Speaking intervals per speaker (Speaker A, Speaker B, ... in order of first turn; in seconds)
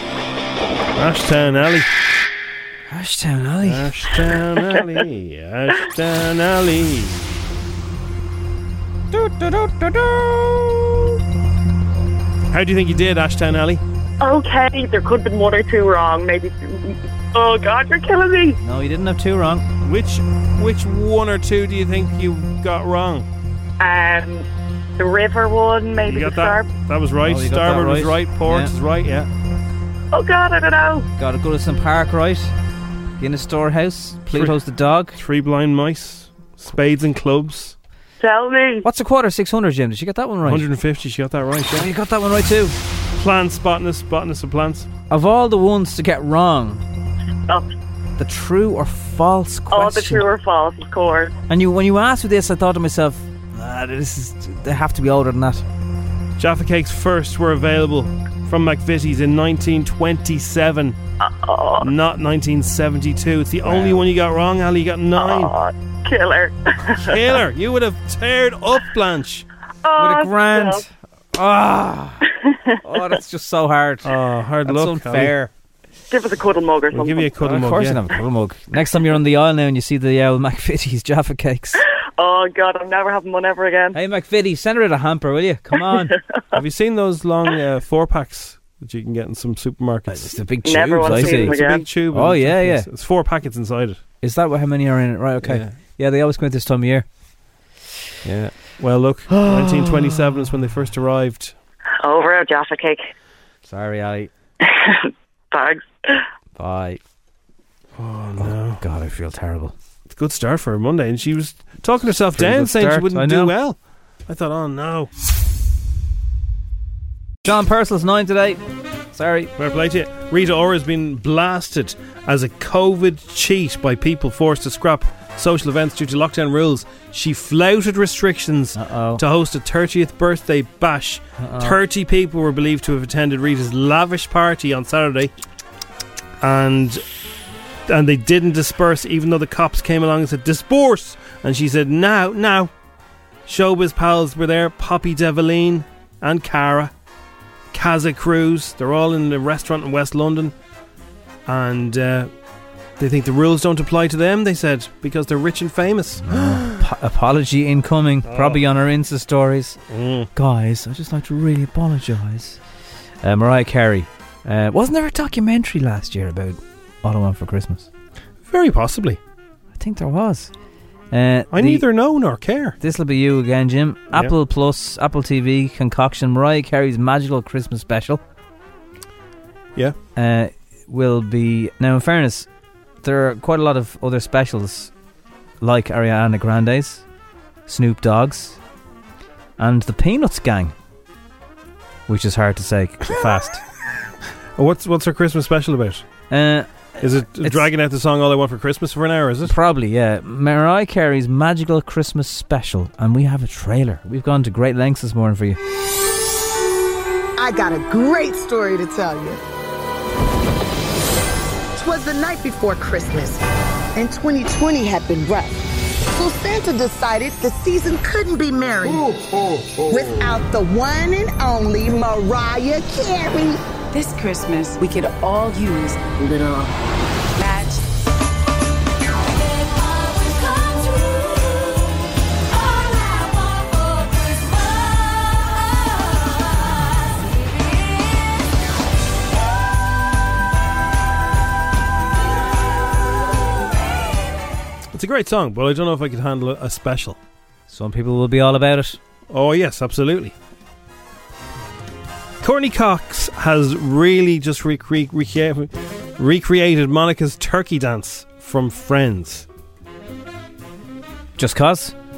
Speaker A: 0.9-1.9, 3.6-7.2, 12.5-13.8, 19.8-23.2, 26.1-29.3, 35.2-37.7, 40.5-41.8, 43.2-44.9, 56.4-61.0, 61.9-65.5, 67.1-69.4, 74.0-75.3, 76.9-78.0, 86.5-90.2, 91.0-94.0, 95.4-95.7, 98.2-101.5, 108.0-108.8, 110.1-115.1, 119.6-135.3, 136.4-137.0, 137.9-142.7, 143.5-146.9, 147.7-150.5, 151.5-152.3, 153.0-156.6, 158.2-158.6, 159.9-160.3, 168.5-169.2, 171.5-172.7, 194.6-196.0, 197.0-199.5, 244.9-247.2, 249.3-250.3, 252.4-259.4
Speaker B: 2.9-3.9, 9.1-10.6, 18.6-19.6, 27.2-28.7, 31.2-32.5, 33.2-35.1, 38.8-40.6, 41.7-42.8, 45.1-46.8, 48.2-50.2, 51.5-55.6, 63.6-64.0, 70.0-72.2, 72.8-74.1, 74.6-75.5, 77.4-81.8, 83.9-86.1, 90.1-91.6, 92.1-92.9, 94.2-97.0, 99.3-100.1, 103.7-104.3, 106.5-107.0, 108.4-109.7, 112.4-113.5, 117.4-118.6, 119.1-119.5, 128.7-129.2, 131.4-131.8, 156.2-159.8, 160.3-162.6, 163.2-167.9, 169.7-170.5, 171.1-171.8, 172.8-178.2, 180.1-182.5, 183.0-184.9, 185.6-187.0, 187.7-188.6, 189.6-190.7, 192.1-193.6, 196.3-197.7, 199.4-205.6, 247.7-249.0, 261.4-261.9
Speaker C: 14.2-18.6, 23.8-24.4, 25.0-26.7, 30.1-31.1, 38.2-38.9, 49.7-51.3, 61.2-61.9, 65.2-67.2, 69.8-70.8, 72.4-72.8, 76.1-77.3, 82.2-84.0, 90.6-91.8, 102.0-103.1, 104.6-106.2
Speaker D: 207.4-209.4, 211.7-213.4, 213.9-215.6, 216.1-219.1, 219.9-223.6
Speaker E: 224.0-225.9